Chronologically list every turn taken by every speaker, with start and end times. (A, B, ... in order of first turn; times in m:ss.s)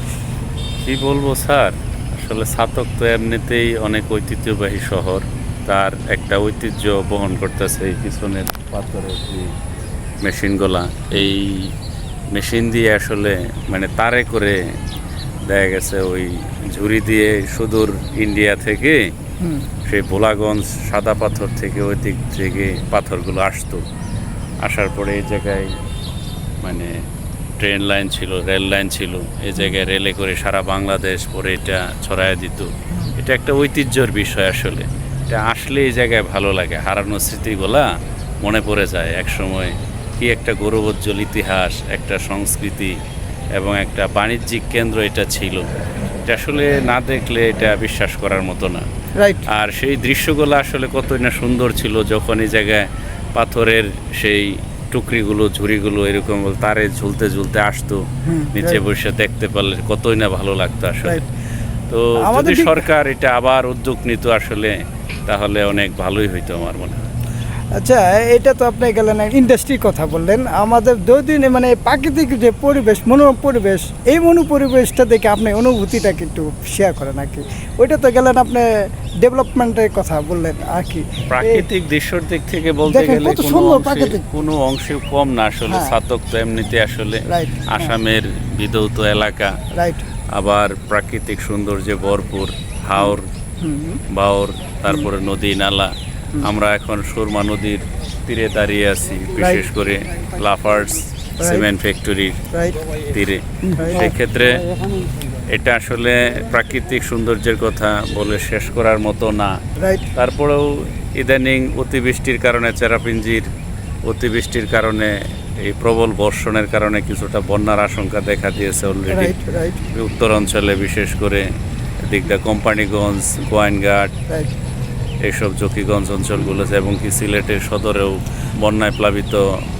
0:00.8-0:09.5 A
0:10.2-0:11.7 A
0:12.3-0:14.6 A
0:15.5-0:19.1 A
0:19.4-0:19.7 B
0:19.9-0:23.8 A
0:24.6-0:25.7 A
0:26.6-0:26.9 A
0:27.6-0:37.9 A
0:38.4-0:42.9 A
0:43.6-0:45.7 A
0:46.3-0:48.8 A
0:49.2-0:49.5 B
0:49.5-0:58.0 A
0:58.2-0:58.8 B
0:58.5-1:01.2 A
1:01.9-1:07.0 A
1:02.2-1:02.9 B
1:07.8-1:18.7 B
1:19.2-1:21.6 B
1:21.3-1:29.6 A
1:22.9-1:24.2 B
1:25.7-1:25.9 B
1:27.2-1:28.0 B
1:29.7-1:30.0 B
1:30.3-1:33.2 A
1:33.0-1:34.0 B
1:34.1-1:42.4 A
1:39.4-1:39.7 B
1:42.5-1:42.8 B
1:43.1-1:44.7 A
1:43.6-1:44.1 B
1:45.5-1:49.5 A
1:49.8-1:50.1 B
1:50.2-1:53.5 A
1:54.0-1:59.3 A
1:59.1-1:59.8 B
1:59.9-2:01.4 A
2:02.0-2:04.1 A
2:04.3-2:04.5 B
2:05.2-2:09.4 A